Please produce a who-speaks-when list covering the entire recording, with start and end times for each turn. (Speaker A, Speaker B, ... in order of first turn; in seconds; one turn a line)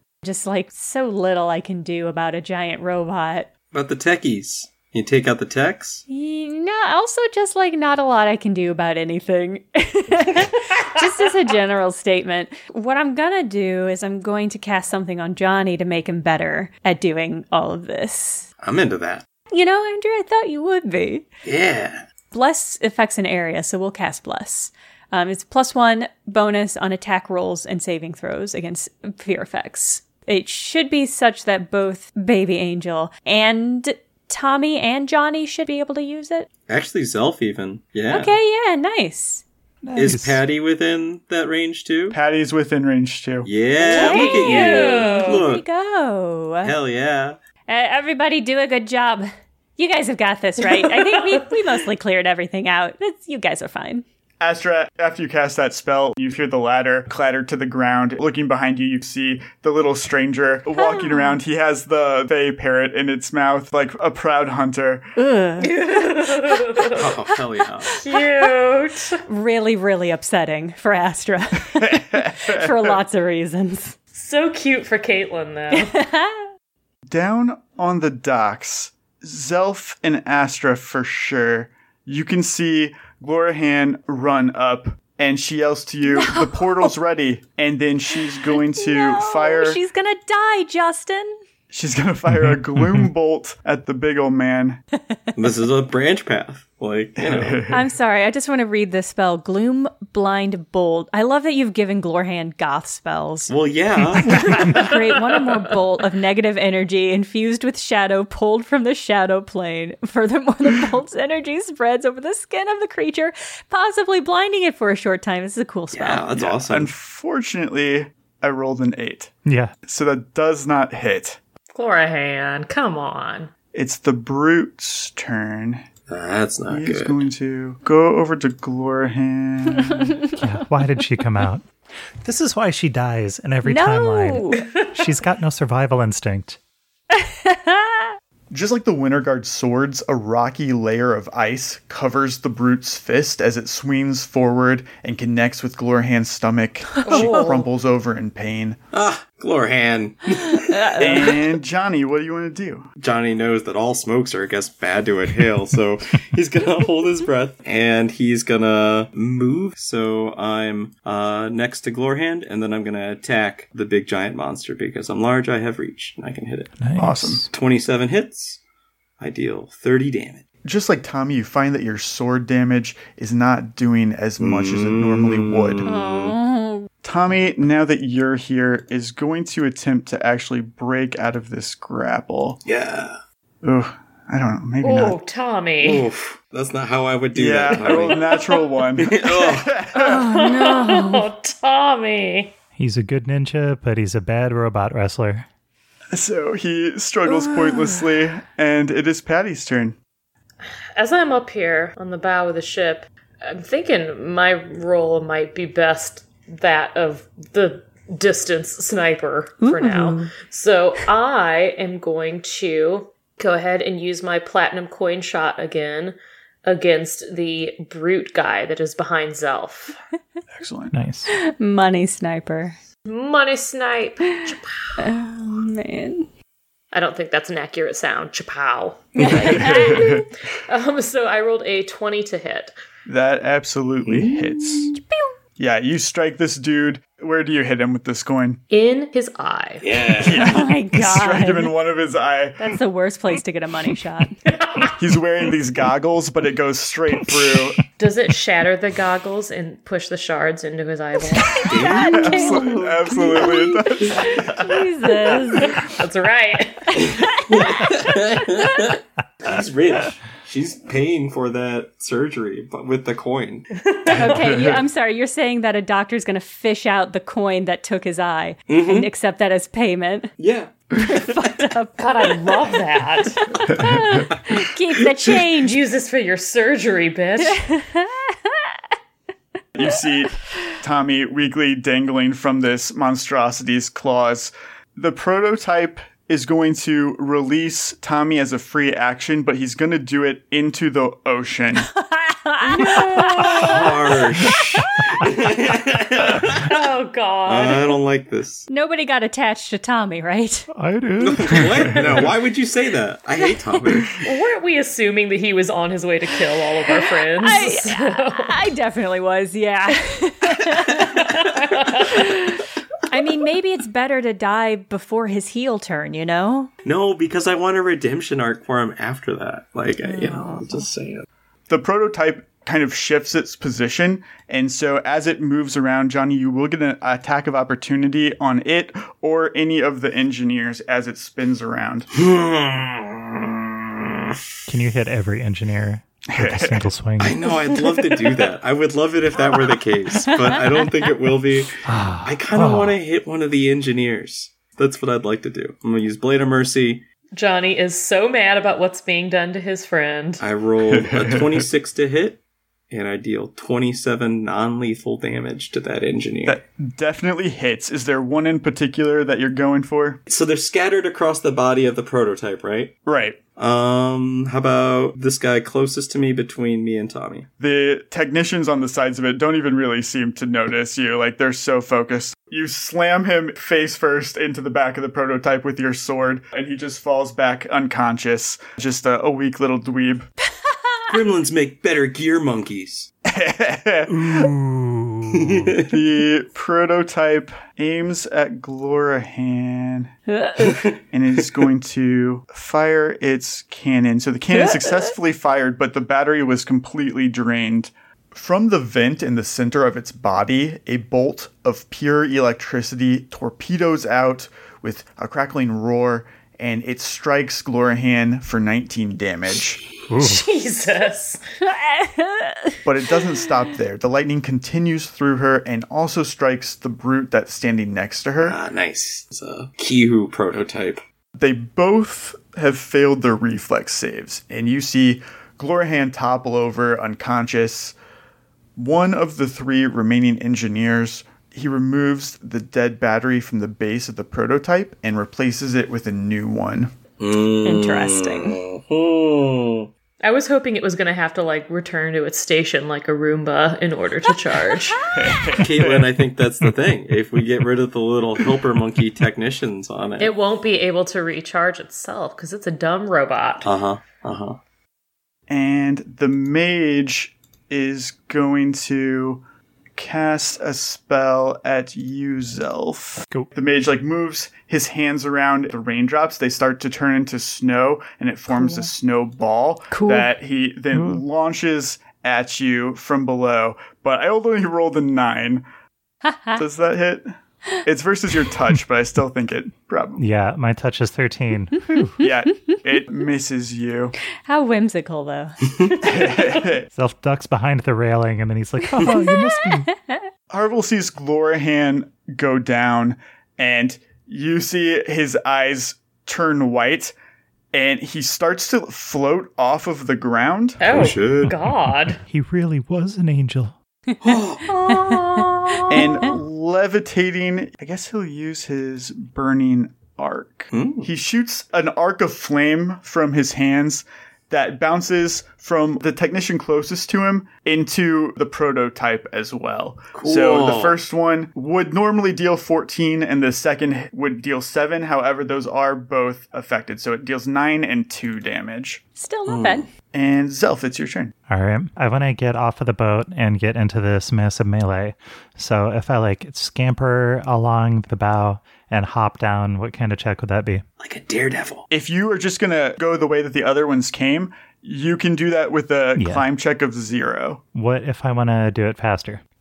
Speaker A: 0.2-3.5
Speaker B: 3.7-6.0
Speaker A: 6.1-18.5
Speaker B: 18.6-19.2
Speaker A: 19.5-21.3
Speaker B: 21.4-22.0
Speaker A: 22.3-36.5
Speaker B: 36.7-38.4
Speaker A: 38.1-39.4
Speaker C: 39.8-40.4
Speaker B: 40.0-42.2
Speaker D: 42.1-43.5
Speaker B: 43.4-45.6
Speaker A: 43.8-46.7
Speaker E: 43.8-45.4
Speaker B: 46.6-47.4
Speaker A: 47.7-54.0
Speaker E: 50.8-51.4
Speaker D: 54.4-65.1
Speaker A: 60.8-61.3
Speaker A: 65.2-66.8
Speaker E: 65.6-67.1
Speaker B: 66.9-68.0
Speaker A: 67.9-68.2
Speaker E: 68.0-69.2
Speaker A: 69.3-73.9
Speaker D: 71.8-73.0
Speaker E: 74.1-76.0
Speaker A: 75.7-76.4
Speaker D: 77.1-89.8
Speaker A: 86.1-86.9
Speaker A: 88.5-91.4
Speaker D: 91.7-94.8
Speaker C: 92.3-93.1
Speaker B: 95.3-97.6
Speaker D: 97.2-97.9
Speaker A: 97.7-103.5
Speaker B: 103.5-104.7
Speaker A: 104.2-116.3
Speaker B: 115.9-116.9
Speaker D: 116.3-119.3
Speaker C: 119.5-119.7
Speaker D: 119.8-121.4
Speaker E: 121.7-123.5
Speaker D: 123.7-125.8
Speaker B: 126.1-127.2
Speaker D: 126.7-130.2
Speaker C: 130.3-131.6
Speaker C: 132.2-136.6
Speaker A: 133.6-134.6
Speaker A: 137.1-138.1
Speaker D: 138.5-148.8
Speaker E: 147.0-147.7
Speaker A: 147.1-147.4
Speaker B: 148.9-150.9
Speaker A: 150.5-151.4
Speaker D: 151.0-152.9
Speaker B: 153.0-166.7
Speaker C: 166.8-167.5
Speaker D: 167.0-167.4
Speaker B: 167.5-168.6
Speaker B: 169.2-170.4
Speaker D: 170.6-175.9
Speaker B: 174.4-176.3
Speaker A: 175.8-176.9
Speaker D: 177.0-182.6
Speaker B: 182.6-183.2
Speaker D: 183.6-185.2
Speaker E: 184.8-186.1
Speaker B: 185.8-188.4
Speaker D: 187.3-190.2
Speaker E: 188.2-188.5
Speaker B: 189.0-189.8
Speaker A: 189.9-191.2
Speaker E: 190.1-192.5
Speaker C: 192.8-195.4
Speaker D: 196.1-199.9
Speaker A: 197.3-198.0
Speaker E: 200.9-219.9
Speaker A: 209.6-210.3
Speaker D: 220.5-220.9
Speaker C: 220.9-221.3
Speaker A: 221.3-222.8
Speaker E: 223.1-224.9
Speaker A: 224.3-226.3
Speaker E: 226.9-230.0
Speaker A: 229.2-230.2
Speaker B: 229.3-229.7
Speaker D: 229.7-230.2
Speaker E: 230.7-232.7
Speaker D: 233.1-234.9
Speaker B: 234.1-234.4
Speaker A: 234.9-235.3
Speaker D: 235.6-238.6
Speaker E: 238.7-239.8
Speaker B: 239.8-240.6
Speaker D: 240.2-242.6
Speaker A: 240.3-241.7
Speaker A: 242.6-244.4
Speaker D: 245.0-247.8
Speaker E: 248.0-251.7
Speaker A: 251.4-255.8
Speaker B: 251.5-253.4
Speaker D: 252.1-254.3
Speaker E: 255.8-257.0
Speaker A: 257.0-257.4
Speaker B: 257.0-264.3
Speaker A: 264.1-270.3
Speaker D: 264.3-264.8
Speaker B: 268.7-269.1
Speaker B: 270.4-271.6
Speaker A: 270.9-272.0
Speaker E: 272.0-273.4
Speaker A: 273.6-275.8
Speaker B: 274.1-275.4
Speaker E: 275.6-277.6
Speaker A: 277.4-278.7
Speaker D: 279.7-291.9
Speaker A: 292.1-294.1
Speaker B: 292.9-296.7
Speaker E: 296.6-298.0
Speaker B: 297.4-298.6
Speaker A: 298.7-300.7
Speaker C: 300.7-302.2
Speaker B: 301.2-304.2
Speaker E: 304.2-308.6
Speaker A: 306.9-316.7
Speaker E: 311.5-312.1
Speaker B: 316.8-321.2
Speaker A: 320.1-320.6
Speaker D: 321.7-332.1
Speaker B: 332.1-334.4
Speaker C: 334.7-337.4
Speaker D: 336.3-336.9
Speaker B: 337.2-347.0
Speaker A: 340.3-340.8
Speaker C: 341.9-343.0
Speaker E: 347.3-350.4
Speaker B: 350.4-356.6
Speaker D: 350.9-351.7
Speaker D: 356.4-360.2
Speaker B: 360.3-362.9
Speaker D: 363.0-363.4
Speaker B: 363.6-367.5
Speaker D: 367.6-380.3
Speaker B: 381.1-383.1
Speaker D: 383.2-384.5
Speaker C: 384.1-385.7
Speaker B: 385.4-385.9
Speaker D: 385.8-390.1
Speaker A: 390.3-390.9
Speaker B: 390.7-391.0
Speaker D: 391.1-409.8
Speaker A: 394.6-395.1
Speaker C: 410.1-410.4
Speaker E: 410.2-411.4
Speaker A: 411.6-412.8
Speaker D: 412.8-418.6
Speaker B: 418.4-421.0
Speaker D: 421.4-427.9
Speaker D: 428.8-436.9
Speaker B: 437.2-439.9
Speaker A: 437.6-438.6
Speaker E: 440.2-445.0
Speaker D: 445.1-446.2
Speaker B: 445.6-450.3
Speaker E: 450.2-453.7
Speaker B: 453.6-454.6
Speaker D: 455.5-459.4
Speaker D: 459.9-475.6
Speaker A: 469.9-470.3
Speaker C: 470.9-471.2
Speaker A: 476.2-476.6
Speaker D: 476.5-477.3
Speaker D: 477.8-480.2
Speaker C: 480.2-482.1
Speaker A: 481.9-482.7
Speaker D: 482.2-484.1
Speaker A: 484.4-485.9
Speaker D: 486.0-486.9
Speaker C: 486.9-489.9
Speaker A: 489.0-490.2
Speaker D: 490.5-497.1
Speaker D: 497.7-500.8
Speaker E: 500.8-502.2
Speaker B: 500.9-501.5
Speaker C: 501.5-503.7
Speaker B: 504.2-506.0
Speaker A: 504.9-505.3
Speaker D: 505.9-529.0
Speaker B: 510.7-511.1
Speaker B: 520.1-521.0
Speaker A: 529.1-529.9
Speaker B: 529.5-529.9
Speaker D: 530.1-531.3
Speaker C: 531.5-540.8
Speaker B: 541.0-541.9
Speaker D: 541.9-547.6
Speaker C: 546.2-546.4
Speaker C: 547.7-549.4